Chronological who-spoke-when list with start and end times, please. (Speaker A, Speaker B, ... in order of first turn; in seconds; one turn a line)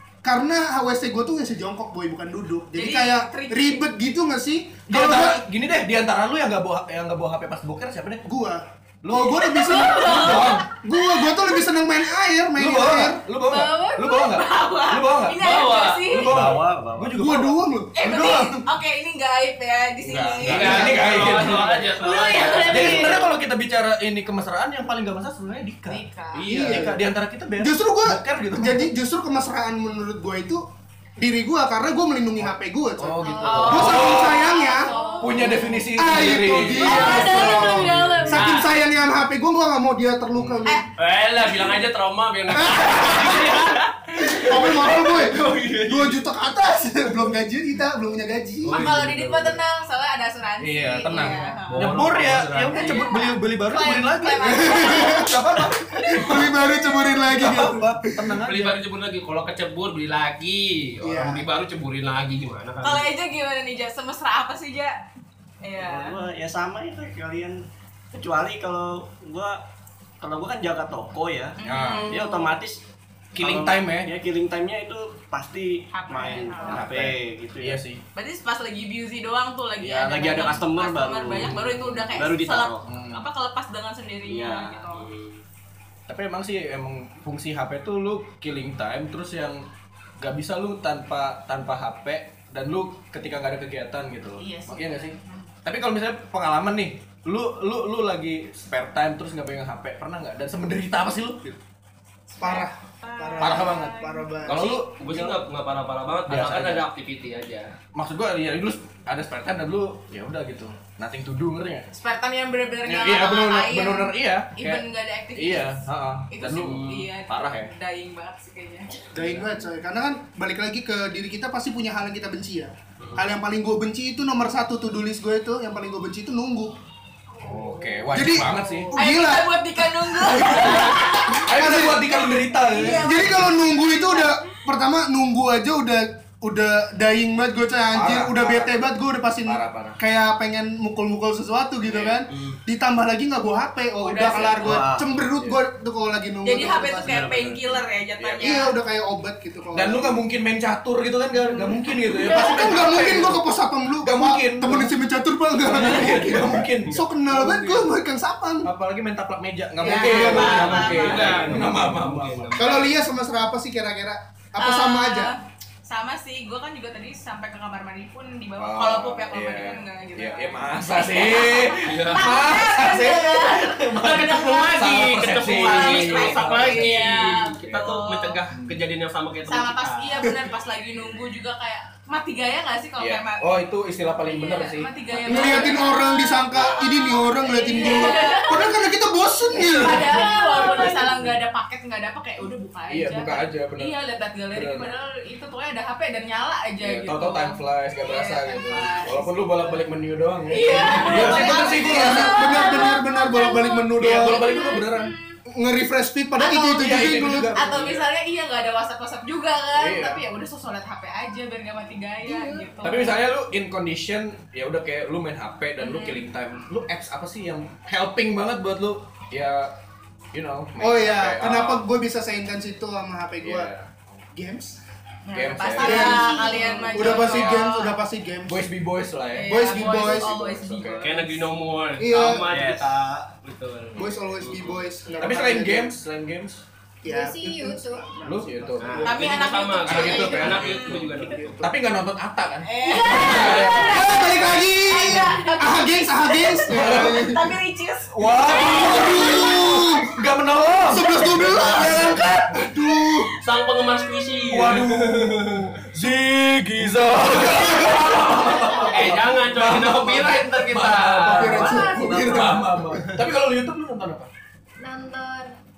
Speaker A: 0.2-5.4
Speaker B: 2.8-3.9
Speaker C: 4.9-8.3
Speaker A: 8.3-13.2
Speaker C: 9.0-10.7
Speaker B: 9.4-11.4
Speaker C: 12.6-15.5
Speaker B: 13.5-16.3
Speaker D: 15.4-16.1
Speaker C: 16.1-18.2
Speaker E: 16.3-17.2
Speaker A: 17.2-18.6
Speaker B: 17.9-21.0
Speaker C: 20.0-28.9
Speaker D: 20.4-23.2
Speaker A: 20.6-21.6
Speaker B: 22.0-23.2
Speaker F: 22.1-23.2
Speaker B: 25.9-26.5
Speaker D: 26.4-26.9
Speaker A: 26.5-27.0
Speaker A: 27.6-30.6
Speaker A: 31.2-34.9
Speaker C: 33.0-34.5
Speaker B: 33.4-36.0
Speaker F: 34.5-35.6
Speaker C: 35.2-38.5
Speaker A: 35.9-40.9
Speaker B: 36.6-38.5
Speaker F: 36.8-38.0
Speaker D: 38.3-38.7
Speaker C: 40.3-40.7
Speaker D: 41.0-46.2
Speaker A: 42.5-48.9
Speaker D: 48.6-49.6
Speaker B: 48.7-52.0
Speaker C: 50.6-58.8
Speaker D: 51.7-53.1
Speaker B: 52.7-55.4
Speaker A: 54.4-58.4
Speaker B: 56.0-57.2
Speaker D: 58.5-63.1
Speaker A: 61.0-61.5
Speaker B: 62.8-65.0
Speaker B: 65.6-66.2
Speaker E: 65.8-67.6
Speaker E: 68.1-69.6
Speaker E: 70.2-72.8
Speaker B: 71.6-72.5
Speaker C: 71.6-72.2
Speaker C: 73.3-74.1
Speaker E: 73.3-77.8
Speaker B: 75.9-76.8
Speaker C: 76.7-78.0
Speaker B: 78.2-85.1
Speaker C: 79.8-80.6
Speaker E: 79.9-82.9
Speaker C: 81.4-82.1
Speaker C: 82.8-83.2
Speaker E: 84.3-84.8
Speaker D: 84.9-85.4
Speaker C: 86.1-89.7
Speaker C: 90.2-101.5
Speaker B: 94.4-95.5
Speaker B: 102.3-104.3
Speaker A: 102.4-104.8
Speaker C: 103.4-105.4
Speaker D: 104.5-107.7
Speaker C: 106.3-106.8
Speaker C: 107.9-111.9
Speaker B: 111.9-119.0
Speaker C: 112.8-114.8
Speaker C: 115.3-117.7
Speaker D: 116.6-117.1
Speaker C: 119.0-119.6
Speaker A: 119.1-126.8
Speaker D: 123.0-123.2
Speaker C: 127.4-128.9
Speaker A: 128.1-132.2
Speaker B: 128.9-131.5
Speaker C: 130.4-133.5
Speaker B: 132.6-134.4
Speaker A: 132.8-147.3
Speaker C: 137.9-138.8
Speaker C: 139.4-140.0
Speaker D: 141.8-142.6
Speaker B: 144.0-144.8
Speaker E: 144.5-145.1
Speaker C: 145.2-145.6
Speaker B: 146.4-148.7
Speaker E: 147.2-147.5
Speaker C: 148.2-148.6
Speaker A: 148.4-150.2
Speaker C: 149.7-153.4
Speaker A: 152.2-158.7
Speaker B: 152.2-152.6
Speaker C: 154.0-154.9
Speaker C: 155.6-157.9
Speaker C: 158.6-162.7
Speaker A: 159.8-161.6
Speaker B: 159.8-161.4
Speaker D: 160.2-162.9
Speaker A: 162.6-165.3
Speaker B: 164.6-178.4
Speaker C: 168.6-177.8
Speaker D: 171.8-172.3
Speaker D: 174.0-180.3
Speaker C: 178.5-178.8
Speaker B: 179.5-183.5
Speaker C: 183.0-185.8
Speaker B: 184.3-188.8
Speaker A: 185.3-190.2
Speaker C: 186.6-186.8
Speaker F: 187.5-188.7
Speaker B: 189.6-199.7
Speaker F: 190.1-191.2
Speaker C: 190.8-191.3
Speaker C: 192.9-193.9
Speaker C: 194.5-194.9
Speaker C: 196.8-202.8
Speaker B: 200.5-205.1
Speaker A: 201.1-204.7
Speaker F: 202.1-205.2
Speaker C: 203.9-205.1
Speaker A: 205.5-207.6
Speaker B: 206.4-207.0
Speaker C: 206.4-208.0
Speaker B: 207.5-213.2
Speaker C: 209.8-210.2
Speaker F: 212.3-212.7
Speaker C: 212.8-219.8
Speaker B: 215.8-216.2
Speaker C: 220.3-221.8
Speaker A: 220.8-223.7
Speaker C: 223.4-223.9
Speaker A: 224.3-224.8
Speaker B: 225.3-228.0
Speaker C: 225.3-227.8
Speaker A: 225.8-228.7
Speaker F: 225.8-227.1
Speaker C: 228.5-231.1
Speaker B: 229.3-231.5
Speaker A: 229.5-230.4
Speaker D: 231.0-234.8
Speaker A: 232.0-232.4
Speaker E: 232.4-233.2
Speaker A: 233.9-235.9
Speaker C: 235.2-236.7
Speaker A: 237.0-241.7
Speaker F: 237.1-238.1
Speaker C: 238.2-239.2
Speaker D: 238.8-241.6
Speaker B: 239.0-240.9
Speaker C: 239.8-244.6
Speaker B: 242.7-249.7
Speaker F: 242.9-244.0
Speaker A: 243.2-247.5
Speaker C: 246.6-247.5
Speaker C: 248.1-252.7
Speaker A: 248.7-250.1
Speaker A: 250.9-253.3
Speaker D: 253.4-255.6
Speaker C: 254.5-264.3
Speaker A: 257.1-258.1
Speaker F: 258.4-258.9
Speaker D: 258.9-262.0
Speaker A: 261.3-263.2
Speaker F: 261.7-262.4
Speaker F: 264.8-265.5